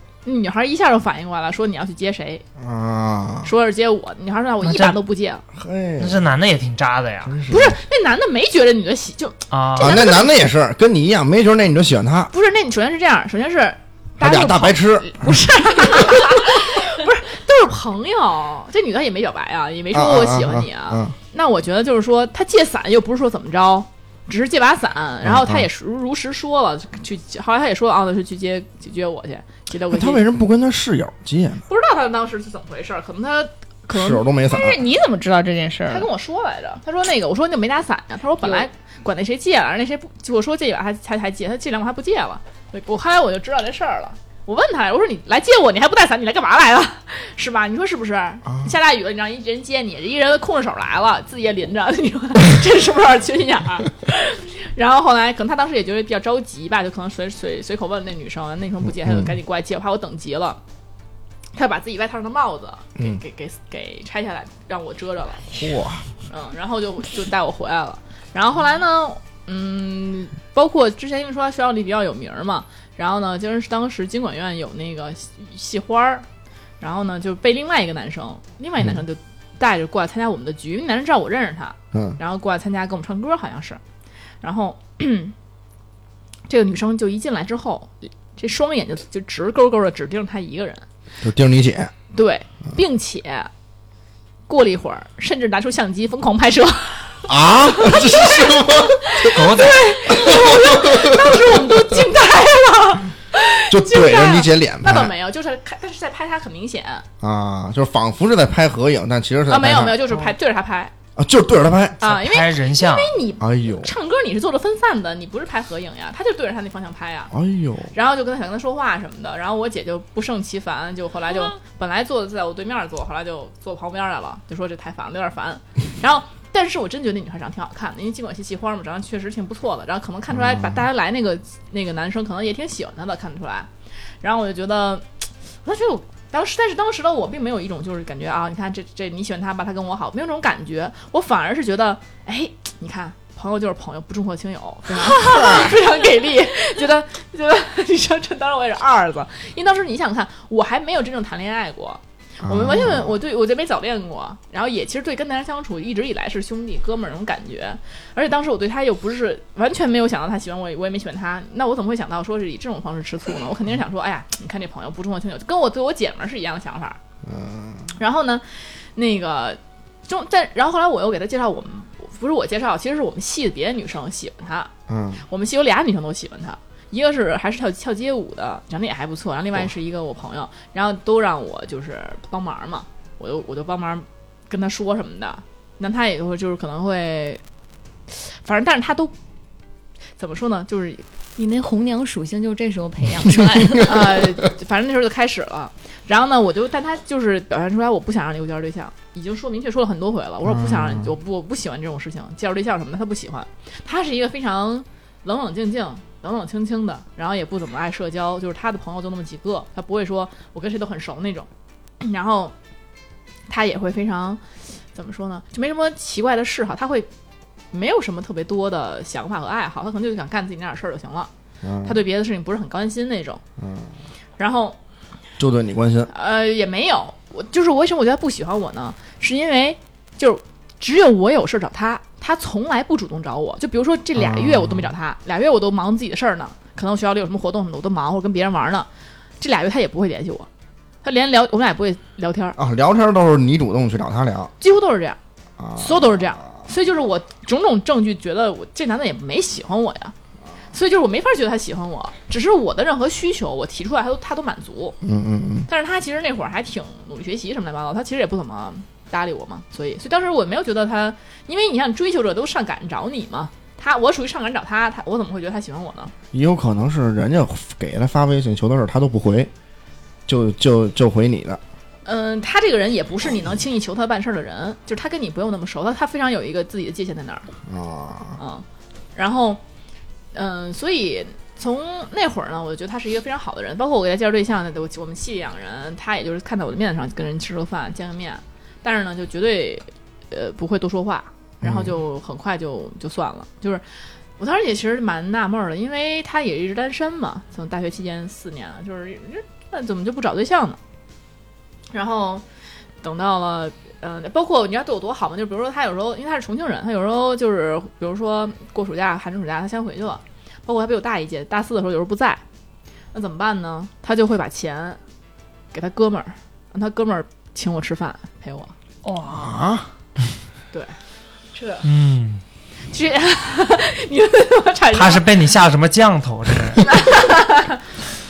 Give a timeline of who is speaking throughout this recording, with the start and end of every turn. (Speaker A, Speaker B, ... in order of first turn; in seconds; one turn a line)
Speaker A: 0.2-2.4
Speaker B: 2.6-3.5
Speaker A: 3.4-5.4
Speaker C: 4.6-5.0
Speaker B: 5.6-6.2
Speaker C: 6.0-7.4
Speaker B: 7.3-7.8
Speaker A: 7.5-10.3
Speaker C: 9.5-9.9
Speaker B: 9.8-12.3
Speaker A: 12.3-30.2
Speaker B: 14.2-16.2
Speaker B: 19.9-21.1
Speaker B: 25.2-25.6
Speaker B: 29.9-31.6
Speaker A: 31.7-34.2
Speaker B: 33.9-34.8
Speaker D: 34.5-36.1
Speaker A: 35.9-60.6
Speaker D: 38.4-38.7
Speaker B: 58.9-59.3
Speaker A: 61.5-65.5
Speaker B: 65.6-66.0
Speaker A: 66.3-76.2
Speaker A: 76.8-83.8
Speaker B: 81.9-82.2
Speaker A: 84.4-85.3
Speaker A: 86.5-90.8
Speaker B: 91.2-91.9
Speaker A: 92.1-93.5
Speaker A: 94.5-97.2
Speaker B: 97.3-99.5
Speaker A: 97.8-98.5
Speaker A: 99.0-107.0
Speaker C: 99.2-99.8
Speaker B: 100.1-102.0
Speaker B: 103.7-105.1
Speaker B: 107.2-110.1
Speaker A: 109.5-110.9
Speaker B: 111.2-112.0
Speaker A: 112.0-117.3
Speaker C: 112.0-113.2
Speaker B: 113.4-113.9
Speaker B: 117.3-117.9
Speaker A: 117.9-133.7
Speaker B: 130.3-130.8
Speaker A: 134.2-135.1
Speaker A: 135.7-167.0
Speaker B: 145.2-145.7
Speaker B: 152.4-153.2
Speaker B: 167.2-167.9
Speaker A: 168.0-174.7
Speaker B: 174.9-175.2
Speaker A: 175.3-187.4
Speaker A: 188.1-189.1
Speaker A: 190.2-191.1
Speaker E: 191.4-194.2
Speaker A: 193.8-211.5
Speaker B: 200.4-201.1
Speaker A: 212.0-212.5
Speaker A: 213.5-214.4
Speaker A: 214.9-217.1
Speaker A: 217.7-221.3
Speaker B: 221.6-222.0
Speaker A: 221.8-223.4
Speaker B: 223.6-223.9
Speaker A: 224.4-224.8
Speaker B: 225.4-226.1
Speaker A: 226.1-238.9
Speaker B: 234.2-234.9
Speaker A: 239.4-240.5
Speaker A: 241.0-242.6
Speaker B: 242.6-244.5
Speaker A: 244.6-245.2
Speaker B: 245.6-246.4
Speaker A: 245.8-250.1
Speaker A: 250.7-255.0
Speaker B: 255.0-255.7
Speaker A: 255.7-266.1
Speaker B: 266.3-269.5
Speaker B: 270.3-271.6
Speaker A: 272.1-277.5
Speaker B: 277.7-278.4
Speaker A: 278.4-279.6
Speaker A: 280.3-293.8
Speaker B: 291.6-291.9
Speaker A: 294.4-300.8
Speaker A: 301.9-302.4
Speaker A: 303.0-312.4
Speaker A: 313.1-315.0
Speaker A: 315.7-318.7
Speaker D: 319.0-319.6
Speaker B: 319.3-319.9
Speaker D: 321.6-321.9
Speaker C: 321.8-322.4
Speaker A: 322.9-325.3
Speaker C: 324.9-326.9
Speaker A: 326.8-327.9